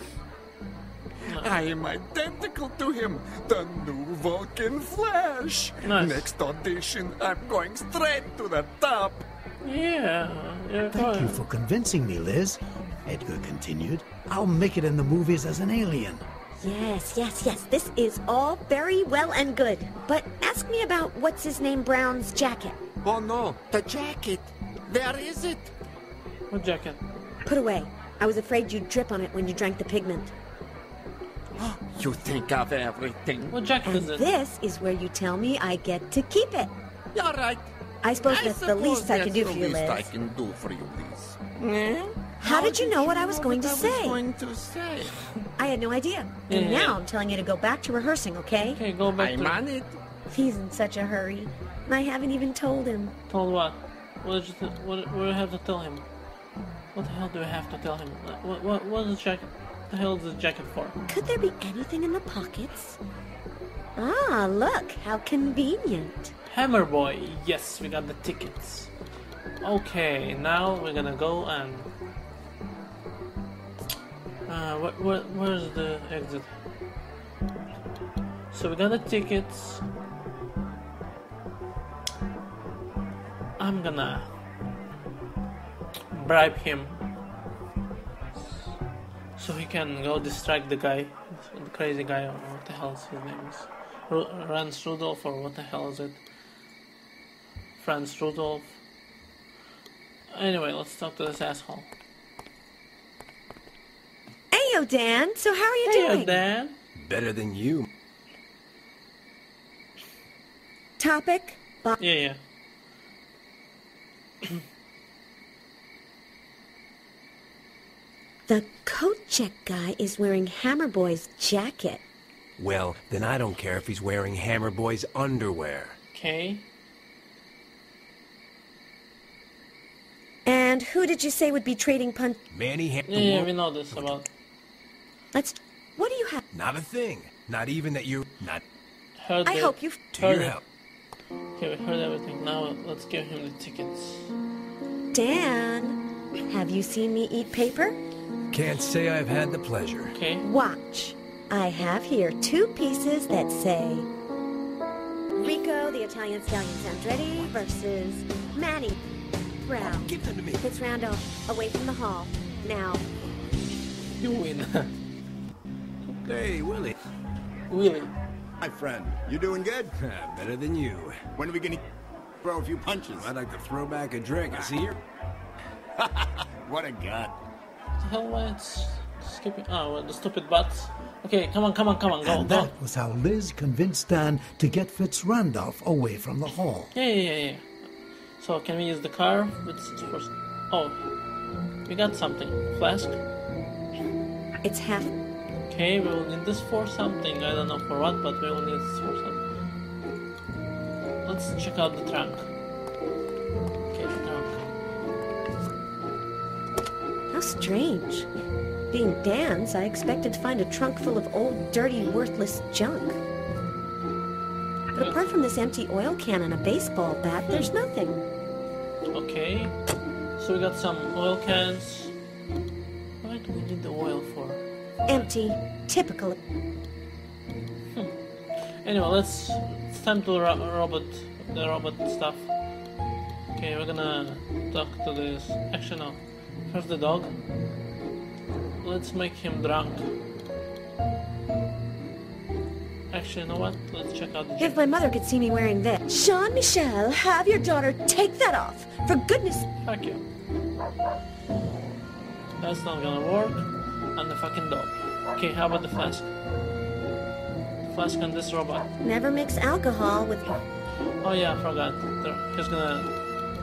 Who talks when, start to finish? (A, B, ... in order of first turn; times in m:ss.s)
0:01.2-0:01.7 A
0:01.3-0:09.2 B
0:05.8-0:06.3 A
0:09.6-0:11.4 A
0:10.9-0:16.2 C
0:16.6-0:22.8 D
0:23.0-0:25.7 B
0:26.5-0:27.0 A
0:27.4-0:30.3 D
0:31.6-0:33.5 B
0:33.5-0:34.3 A
0:33.8-0:36.7 D
0:37.1-0:37.6 B
0:38.0-0:40.1 D
0:38.2-0:45.2 B
0:42.4-0:44.2 D
0:45.6-0:48.8 D
0:46.5-0:47.0 A
0:48.7-0:49.6 A
0:49.1-0:50.0 B
0:50.3-0:53.1 D
0:53.3-0:56.0 A
0:56.9-1:01.0 A
1:01.1-1:03.0 D
1:04.0-1:06.3 D
1:06.5-1:08.9 A
1:09.6-1:11.9 A
1:14.5-1:16.5 A
1:18.5-1:19.8 A
1:23.6-1:24.3 A
1:26.1-1:27.0 A
1:29.4-1:36.2 A
1:37.8-1:38.8 A
1:40.3-1:41.9 A
1:44.5-1:46.4 D
1:45.8-1:46.8 A
1:47.0-1:47.9 E
1:51.0-1:52.0 D
1:52.0-1:52.4 A
1:58.5-2:02.0 D
2:02.6-2:06.0 E
2:06.1-2:06.7 A
2:10.4-2:12.4 D
2:12.5-2:14.2 E
2:13.1-2:14.3 A
2:15.3-2:16.4 D
2:16.5-2:18.6 E
2:19.2-2:20.6 A
2:19.4-2:20.1 D
2:20.1-2:20.6 E
2:21.6-2:24.3 A
2:25.1-2:28.0 D
2:28.5-2:30.2 E
2:30.1-2:30.4 A
2:30.4-2:34.1 D
2:35.4-2:39.0 D
2:39.6-2:43.0 D
2:39.8-2:40.6 E
2:44.1-2:44.9 A
2:46.2-2:47.0 E
2:47.7-2:48.1 A
2:48.6-2:49.9 F
2:50.0-2:51.2 E
2:51.4-2:51.8 F
2:52.4-2:53.4 F
2:53.1-2:55.0 E
2:54.5-2:54.8 F
2:56.6-2:57.3 F
2:58.0-3:02.7 A
3:02.2-3:06.9 C
3:06.9-3:07.6 A
3:08.4-3:11.0 A
3:11.8-3:13.2 A
3:14.6-3:15.1 D
3:15.7-3:19.4 A
3:21.2-3:22.5 A
3:23.9-3:24.6 A
3:27.3-3:28.3 D
3:28.9-3:33.2 D
3:34.9-3:38.2 D
3:35.0-3:35.2 A
3:39.1-3:39.8 A
3:40.4-3:42.1 A
3:43.2-3:44.6 A
3:45.1-3:46.4 D
3:48.6-3:52.5 A
3:53.5-3:57.4 A
3:58.8-4:00.1 A
4:03.1-4:04.8 A
4:04.6-4:09.6 D
4:09.8-4:10.2 A
4:12.6-4:16.3 A
4:17.8-4:18.9 A
4:19.0-4:20.6 D
4:21.2-4:23.1 A